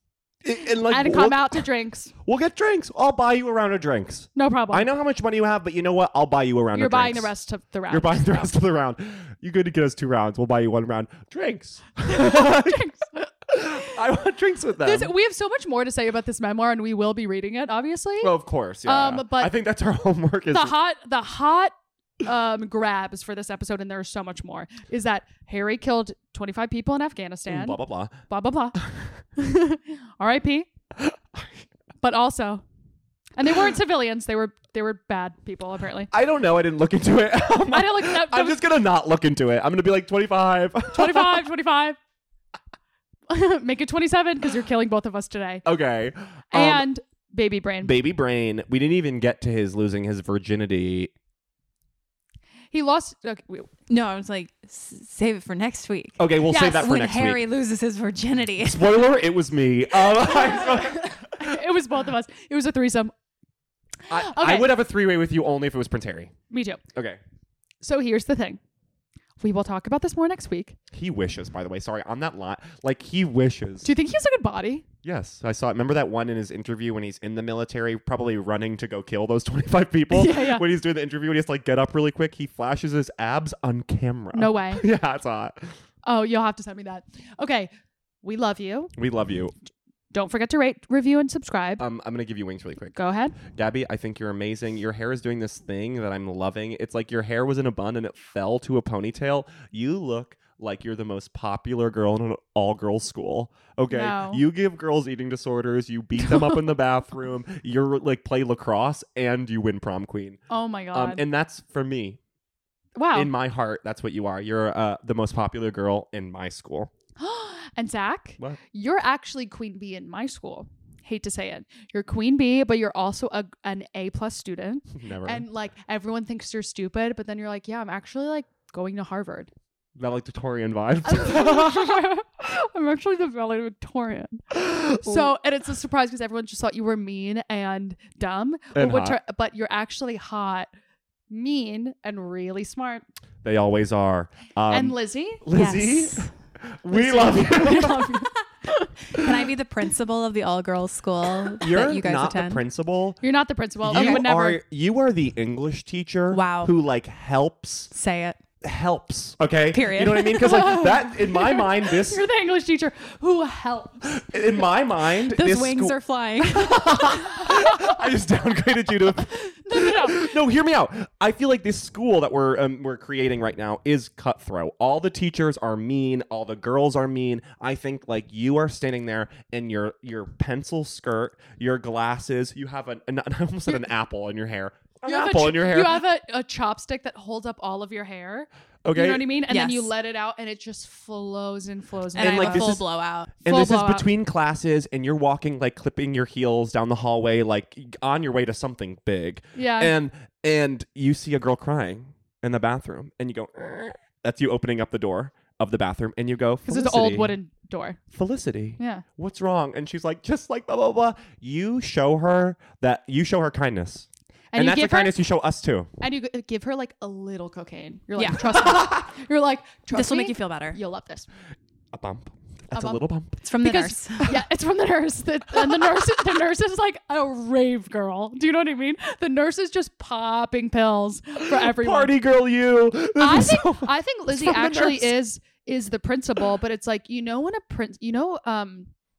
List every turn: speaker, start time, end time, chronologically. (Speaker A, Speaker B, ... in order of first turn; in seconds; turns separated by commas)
Speaker A: 0.4-1.6, Speaker B: 0.9-2.1, Speaker A: 2.2-7.3, Speaker B: 4.3-4.9, Speaker B: 6.7-8.2, Speaker A: 7.9-12.9, Speaker B: 12.0-13.7, Speaker A: 13.5-15.1, Speaker B: 14.8-18.3, Speaker A: 18.2-20.7, Speaker B: 18.8-19.5, Speaker B: 20.5-28.8, Speaker A: 27.5-28.2, Speaker A: 28.8-29.1, Speaker B: 29.4-30.7, Speaker A: 31.0-31.5, Speaker B: 32.0-32.6, Speaker B: 33.4-36.1, Speaker A: 36.1-41.5, Speaker B: 37.7-38.6, Speaker B: 40.9-42.0, Speaker B: 43.3-45.6, Speaker A: 45.6-46.9, Speaker B: 46.5-48.0, Speaker A: 47.8-51.1, Speaker B: 52.7-53.7, Speaker C: 53.9-58.9, Speaker A: 56.2-57.4, Speaker B: 56.5-56.9, Speaker A: 58.6-61.6, Speaker B: 60.1-63.1, Speaker B: 64.1-64.7, Speaker A: 64.1-66.3, Speaker B: 66.5-66.8, Speaker A: 66.9-67.2, Speaker B: 67.8-68.6, Speaker B: 69.4-70.8, Speaker A: 70.9-73.9, Speaker B: 73.8-74.9, Speaker A: 75.0-85.8, Speaker B: 80.1-80.6, Speaker B: 84.3-84.8, Speaker B: 86.0-87.7, Speaker B: 88.2-88.9, Speaker A: 89.0-89.5, Speaker B: 90.1-91.8, Speaker A: 91.8-110.4, Speaker B: 92.9-93.4, Speaker B: 103.9-104.4, Speaker B: 110.5-111.2, Speaker A: 110.9-112.2, Speaker B: 113.0-113.3, Speaker A: 113.1-116.9, Speaker B: 117.2-129.5, Speaker A: 125.0-125.4, Speaker A: 130.0-132.0, Speaker B: 131.0-140.7, Speaker A: 134.5-135.3, Speaker A: 138.7-139.2, Speaker B: 141.3-143.0, Speaker A: 143.4-148.3, Speaker B: 144.7-145.4, Speaker C: 145.5-146.3, Speaker B: 146.9-148.3, Speaker C: 147.7-148.2, Speaker C: 149.0-152.6, Speaker A: 151.6-153.2, Speaker B: 153.2-154.6, Speaker A: 153.8-157.9, Speaker C: 153.9-154.2, Speaker C: 156.3-156.7, Speaker C: 157.9-158.4, Speaker A: 158.6-162.2, Speaker C: 159.7-160.8, Speaker B: 160.3-164.4, Speaker A: 164.1-186.0, Speaker C: 165.3-167.5, Speaker B: 167.5-167.8, Speaker B: 169.6-170.3, Speaker B: 185.0-192.8, Speaker A: 188.8-189.3, Speaker C: 189.5-189.9, Speaker A: 192.2-192.8, Speaker C: 192.2-193.3, Speaker A: 193.4-207.3, Speaker B: 193.4-194.1, Speaker B: 199.5-199.9, Speaker B: 206.7-208.0, Speaker A: 208.1-215.9, Speaker B: 208.8-209.0, Speaker B: 214.5-215.2, Speaker B: 216.0-221.3, Speaker C: 218.2-218.8, Speaker C: 219.9-220.8, Speaker A: 221.9-223.4, Speaker B: 222.7-223.0, Speaker C: 223.4-224.3, Speaker B: 223.6-232.1, Speaker A: 231.4-235.1, Speaker B: 233.2-238.9